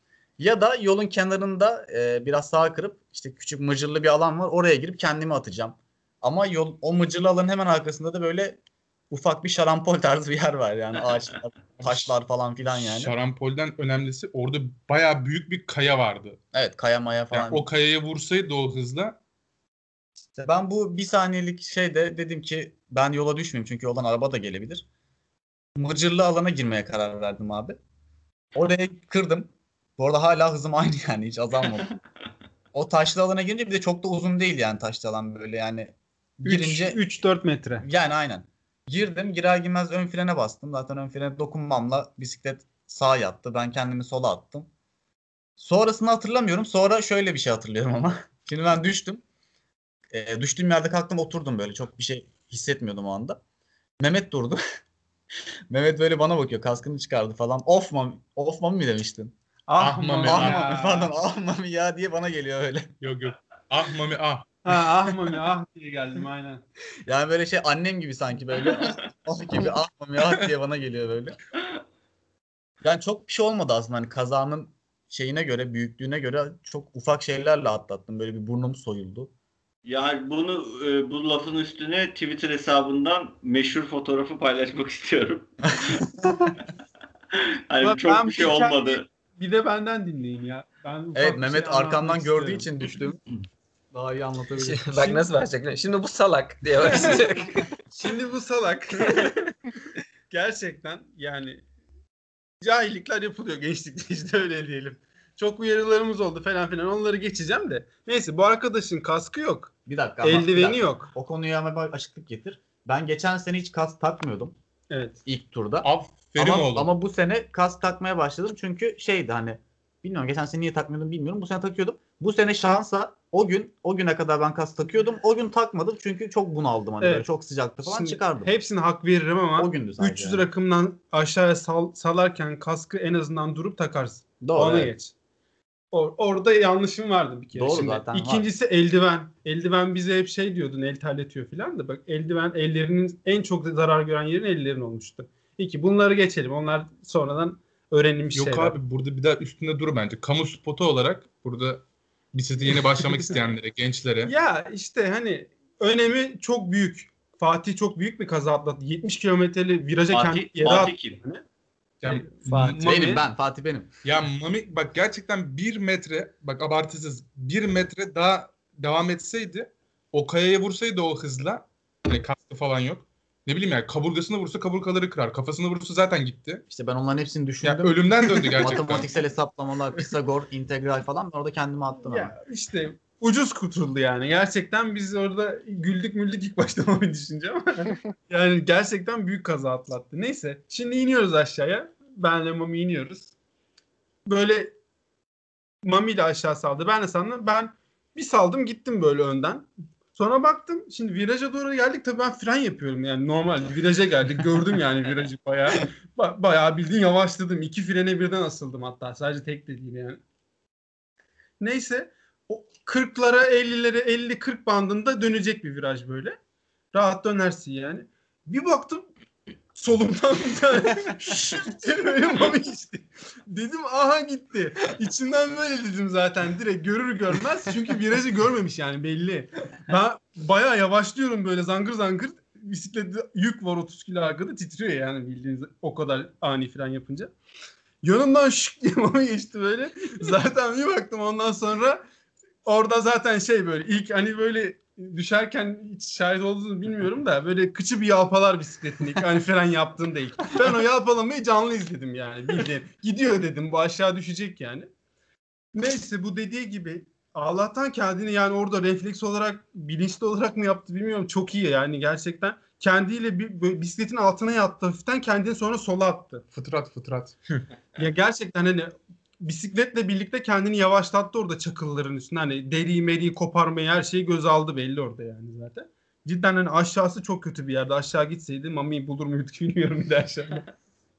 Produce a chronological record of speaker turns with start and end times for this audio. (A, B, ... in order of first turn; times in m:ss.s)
0:00.4-0:08.6 A
0:09.1-0:13.1 A
0:11.8-0:12.1 B
0:12.7-0:16.4 B
0:16.5-0:17.7 A
0:17.3-0:19.2 B
0:20.3-0:24.8 A
0:25.8-0:27.8 A
0:28.6-0:31.9 A
0:32.7-0:37.0 A
0:36.4-0:37.9 C
0:37.8-0:44.7 A
0:45.6-0:49.2 A
0:50.1-0:53.4 A
0:54.0-0:54.6 A
0:55.7-0:59.4 A
0:59.7-1:01.1 C
0:59.8-1:00.8 B
1:00.2-1:02.9 A
1:03.0-1:04.7 B
1:04.6-1:06.6 C
1:07.1-1:11.4 A
1:12.8-1:19.3 A
1:19.8-1:25.5 D
1:25.8-1:26.5 A
1:27.4-1:29.1 D
1:27.8-1:32.7 C
1:31.2-1:33.2 A
1:33.9-1:34.8 A
1:34.6-1:37.6 E
1:34.9-1:35.3 C
1:36.9-1:37.2 C
1:37.9-1:39.5 C
1:40.3-1:41.6 C
1:42.6-1:51.1 C
1:49.9-1:54.5 A
1:54.9-1:55.2 C
1:55.3-2:08.5 A
1:55.8-1:56.9 B
2:07.0-2:07.3 C
2:07.8-2:15.1 C
2:09.6-2:10.4 A
2:14.4-2:14.9 A
2:15.9-2:28.8 C
2:17.6-2:18.4 A
2:28.3-2:34.3 B
2:32.6-2:33.4 C
2:34.2-2:41.4 C
2:40.1-2:41.2 D
2:42.0-2:42.8 B
2:42.0-2:43.2 C
2:42.6-2:43.9 A
2:44.0-2:56.6 B
2:56.7-2:58.0 A
2:57.6-2:59.1 B
2:58.3-2:58.6 C
2:58.6-3:02.4 A
3:02.0-3:13.3 C
3:14.3-3:14.8 C
3:15.8-3:30.2 C
3:31.6-3:36.4 C
3:36.9-3:39.1 C
3:39.7-3:57.3 C
3:58.0-4:02.0 C
4:02.6-4:14.9 C
4:15.8-4:26.4 C
4:26.5-4:27.4 B
4:27.6-4:40.6 C